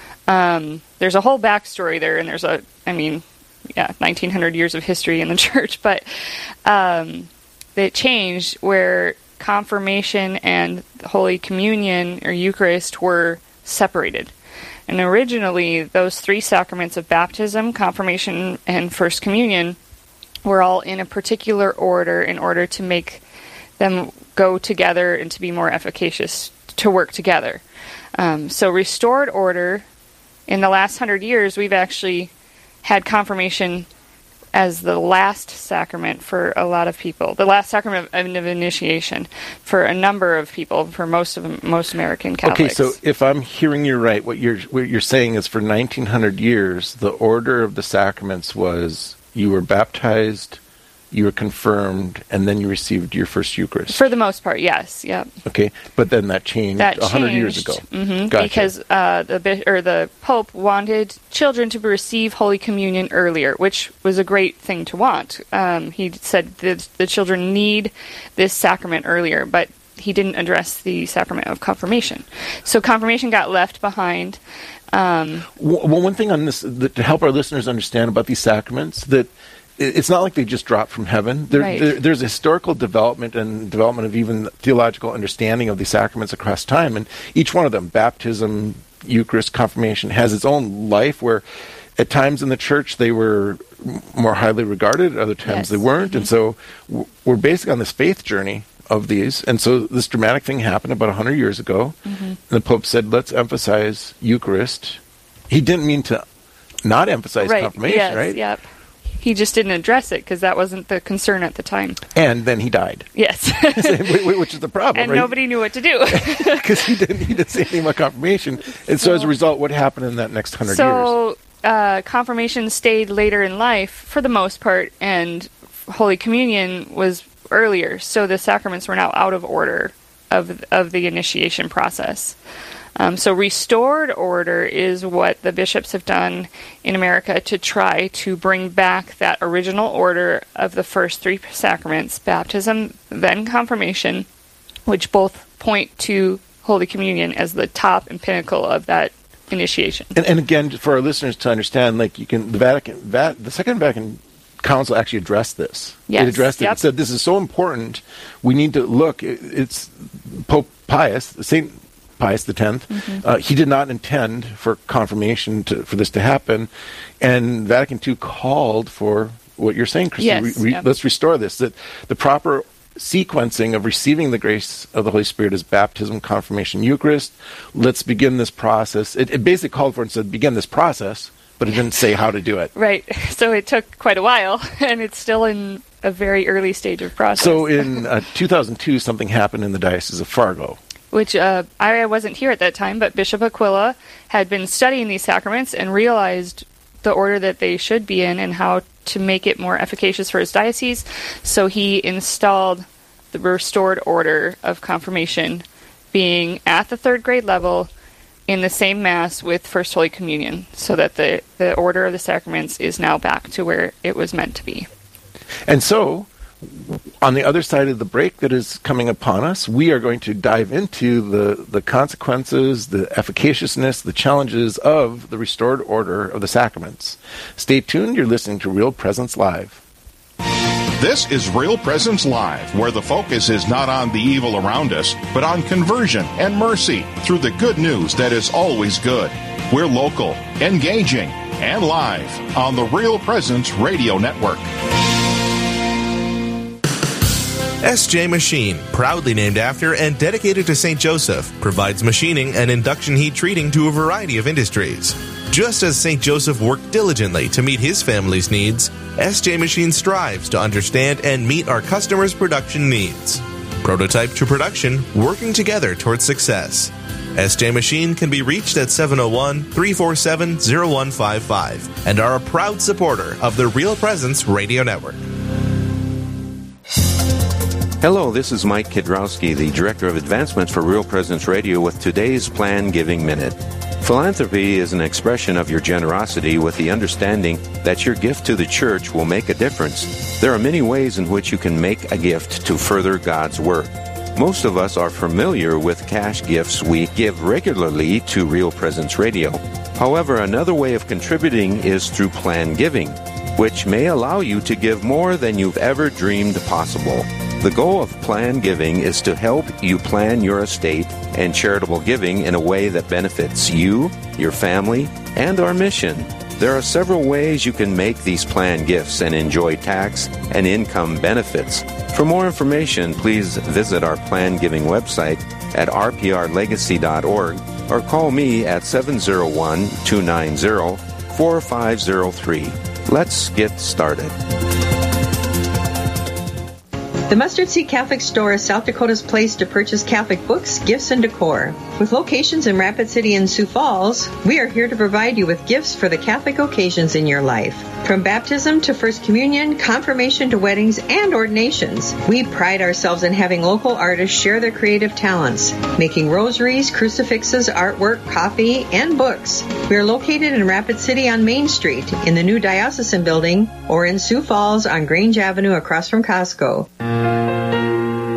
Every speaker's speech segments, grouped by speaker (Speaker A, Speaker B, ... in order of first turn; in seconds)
Speaker A: 0.3-14.3, 14.9-19.8, 20.4-23.2, 23.8-27.6, 28.2-29.9, 30.5-32.3, 32.8-33.9, 34.5-43.0, 53.9-55.3, 56.8-74.4, 74.9-75.5, 81.5-81.9, 95.5-96.3, 102.1-102.4, 107.4-108.6, 109.2-112.0, 113.2-114.3, 114.9-117.0, 119.0-119.3, 120.7-132.4, 133.0-144.3, 144.9-150.2, 156.1-156.8, 162.9-163.2, 170.2-170.9, 182.8-188.0, 191.1-207.9, 208.5-214.9
Speaker B: 42.4-50.6, 51.1-54.0, 55.5-58.7, 75.5-91.5, 92.0-106.2, 106.8-108.4, 112.1-113.1, 113.7-115.4, 116.1-121.1, 150.2-166.7, 167.2-182.7, 187.4-190.8, 215.7-229.8
Speaker C: 231.0-244.7
Speaker D: 247.8-275.2
Speaker E: 278.0-334.4
Speaker F: 337.3-366.9